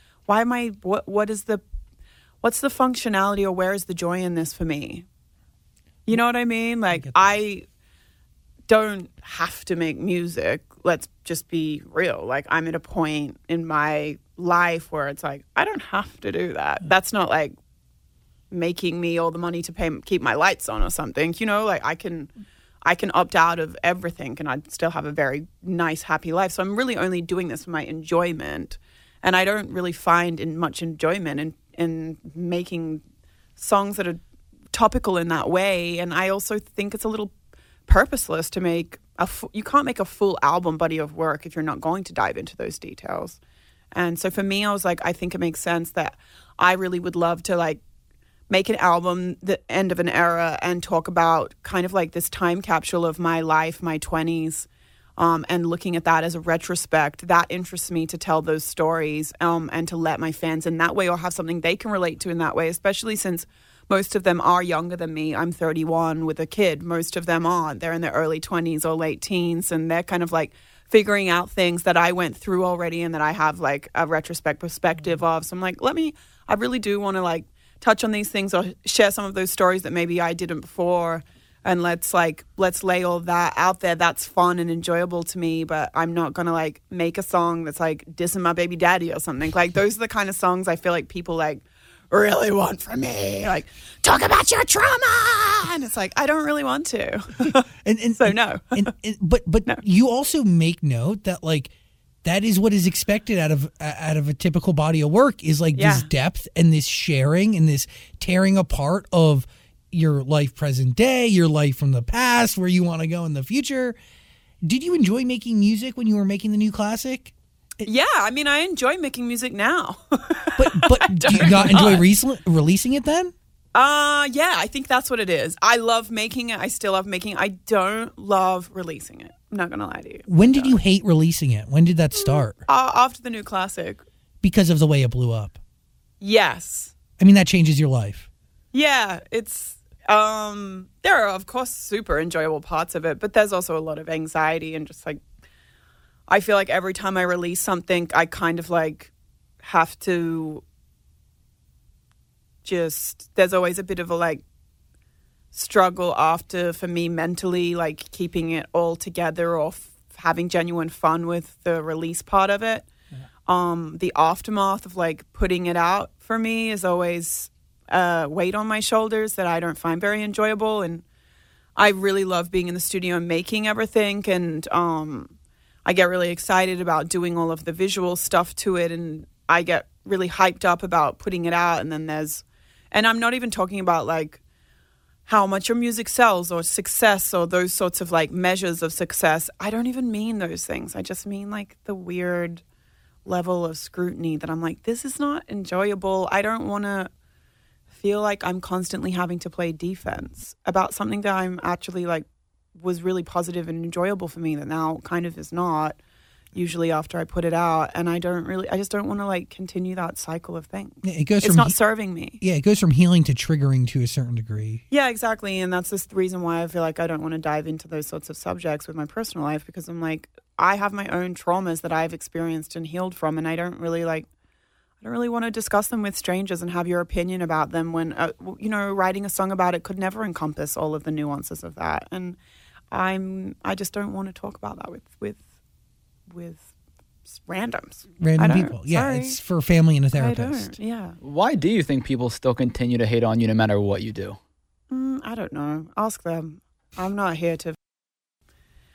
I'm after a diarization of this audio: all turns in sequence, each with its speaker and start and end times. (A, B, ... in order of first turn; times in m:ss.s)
0:00.3-0:01.6 A
0:02.4-0:05.1 A
0:06.1-0:07.6 A
0:08.7-0:17.6 A
0:18.5-0:22.3 A
0:22.8-0:33.0 A
0:33.6-0:34.2 A
0:34.7-0:37.3 A
0:37.9-0:43.4 A
0:44.0-0:47.8 A
0:48.5-1:38.9 A
1:37.8-1:41.7 B
1:42.2-1:54.0 B
1:45.8-1:46.1 A
1:54.6-1:57.9 B
1:57.8-2:02.0 A
2:00.6-2:03.3 B
2:03.8-2:10.8 A
2:10.3-2:12.6 B
2:12.2-2:14.0 A
2:14.4-2:15.6 B
2:16.2-2:17.0 A
2:17.2-2:18.3 B
2:18.7-2:25.2 A
2:26.3-2:30.6 A
2:32.6-2:34.4 A
2:35.5-2:42.9 A
2:43.5-2:51.0 A
2:51.8-2:55.3 A
2:55.8-3:04.4 A
3:05.3-3:12.6 A
3:13.2-3:17.1 A
3:18.0-3:26.0 A
3:26.5-3:32.4 A
3:31.0-3:31.8 B
3:32.4-3:34.8 B
3:34.9-3:44.3 A
3:45.0-3:52.4 A
3:52.9-3:55.4 A
3:56.3-3:56.7 A
3:57.4-3:59.4 A
3:58.2-4:00.7 B
4:00.2-4:01.2 A
4:01.2-4:04.4 C
4:04.9-4:07.8 A